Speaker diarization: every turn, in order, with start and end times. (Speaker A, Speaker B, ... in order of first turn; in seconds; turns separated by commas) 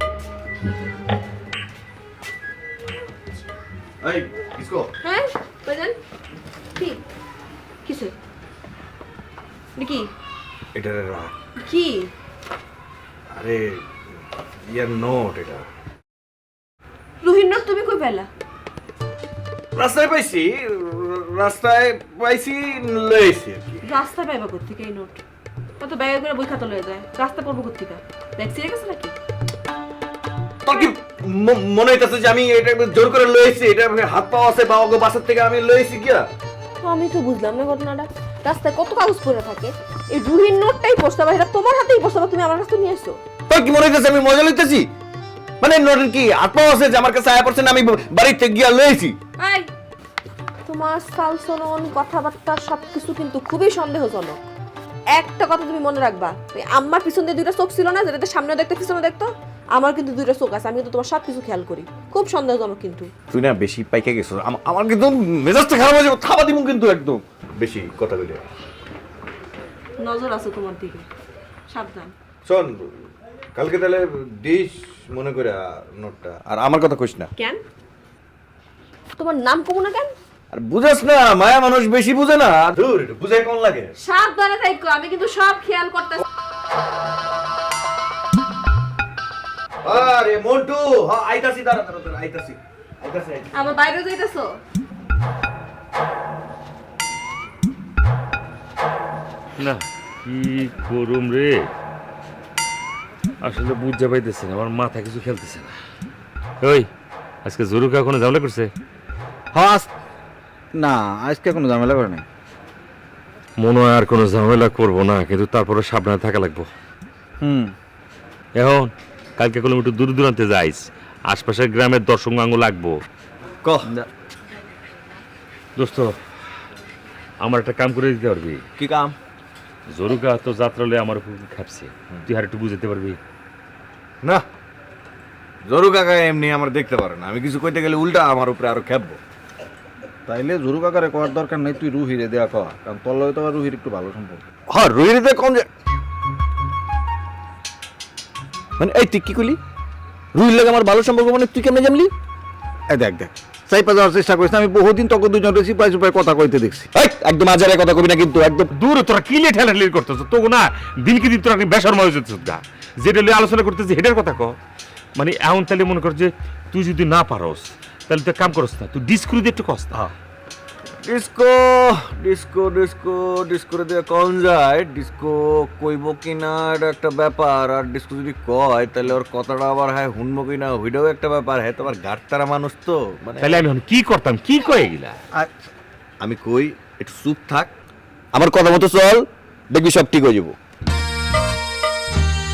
Speaker A: 4.0-4.9, Speaker B: 5.0-6.0, Speaker B: 6.8-7.0, Speaker B: 7.8-8.1, Speaker B: 9.8-10.1, Speaker A: 10.7-11.3, Speaker B: 11.6-12.1, Speaker A: 13.3-13.8, Speaker A: 14.7-15.7, Speaker B: 17.2-18.3, Speaker A: 19.8-23.8, Speaker B: 23.8-25.2, Speaker B: 25.8-29.1, Speaker A: 30.6-36.3, Speaker B: 36.8-43.2, Speaker A: 43.5-44.9, Speaker A: 45.6-49.2, Speaker B: 49.4-49.7, Speaker B: 50.7-54.4, Speaker B: 55.1-63.1, Speaker A: 63.3-68.4, Speaker B: 70.0-71.0, Speaker B: 71.7-72.1, Speaker A: 72.4-72.7, Speaker A: 73.5-77.3, Speaker B: 77.4-77.6, Speaker B: 79.1-80.1, Speaker A: 80.5-83.9, Speaker B: 84.0-86.2, Speaker A: 89.8-93.5, Speaker B: 93.5-94.6, Speaker C: 99.6-101.6, Speaker C: 103.4-105.7, Speaker C: 106.6-106.9, Speaker C: 107.4-108.7, Speaker D: 109.5-109.9, Speaker D: 110.7-112.2, Speaker C: 113.6-116.7, Speaker D: 117.4-117.7, Speaker C: 118.5-123.0, Speaker A: 123.6-123.9, Speaker C: 125.8-126.1, Speaker C: 127.4-128.6, Speaker A: 128.8-129.2, Speaker C: 129.9-133.2, Speaker A: 135.6-139.2, Speaker D: 140.3-144.4, Speaker A: 144.7-145.7, Speaker A: 148.8-149.6, Speaker A: 150.3-152.1, Speaker D: 152.9-156.9, Speaker A: 156.9-158.7, Speaker C: 158.8-164.6, Speaker C: 165.2-169.9, Speaker A: 171.0-183.6, Speaker C: 183.4-185.2, Speaker A: 186.2-187.7, Speaker A: 188.3-190.6